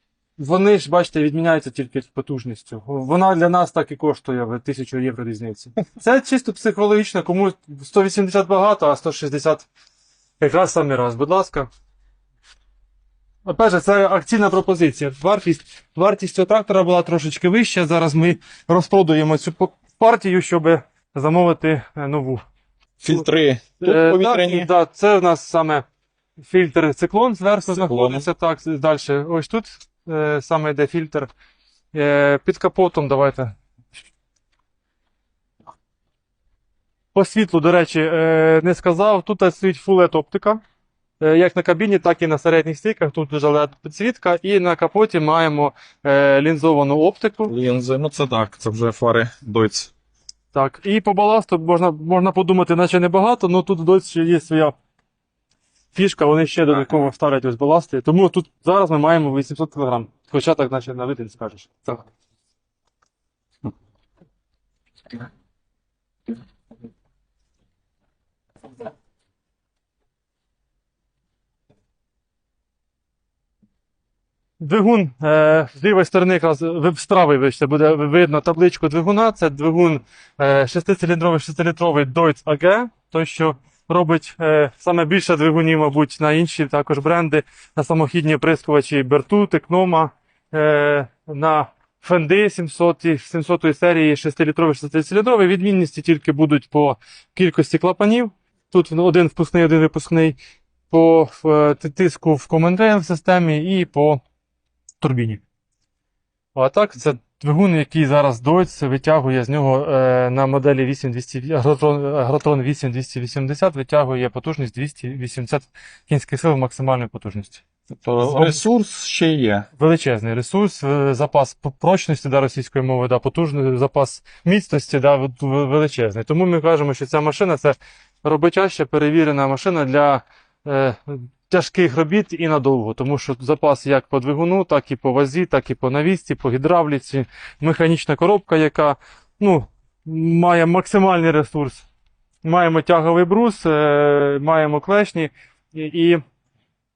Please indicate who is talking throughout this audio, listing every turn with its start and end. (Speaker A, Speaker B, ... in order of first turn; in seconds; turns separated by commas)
Speaker A: 0.4-9.7, Speaker A: 10.4-11.7, Speaker A: 13.4-22.4, Speaker B: 23.0-24.7, Speaker A: 23.8-25.9, Speaker A: 26.4-31.3, Speaker B: 27.7-28.3, Speaker A: 31.9-33.6, Speaker A: 37.1-40.6, Speaker A: 41.2-47.5, Speaker B: 47.5-49.9, Speaker A: 50.5-54.8, Speaker A: 55.9-62.0, Speaker A: 74.6-100.4, Speaker A: 100.9-104.2, Speaker A: 105.0-105.4, Speaker A: 106.5-117.6, Speaker B: 118.0-119.7, Speaker A: 118.2-118.6, Speaker A: 119.8-141.9, Speaker A: 142.4-146.2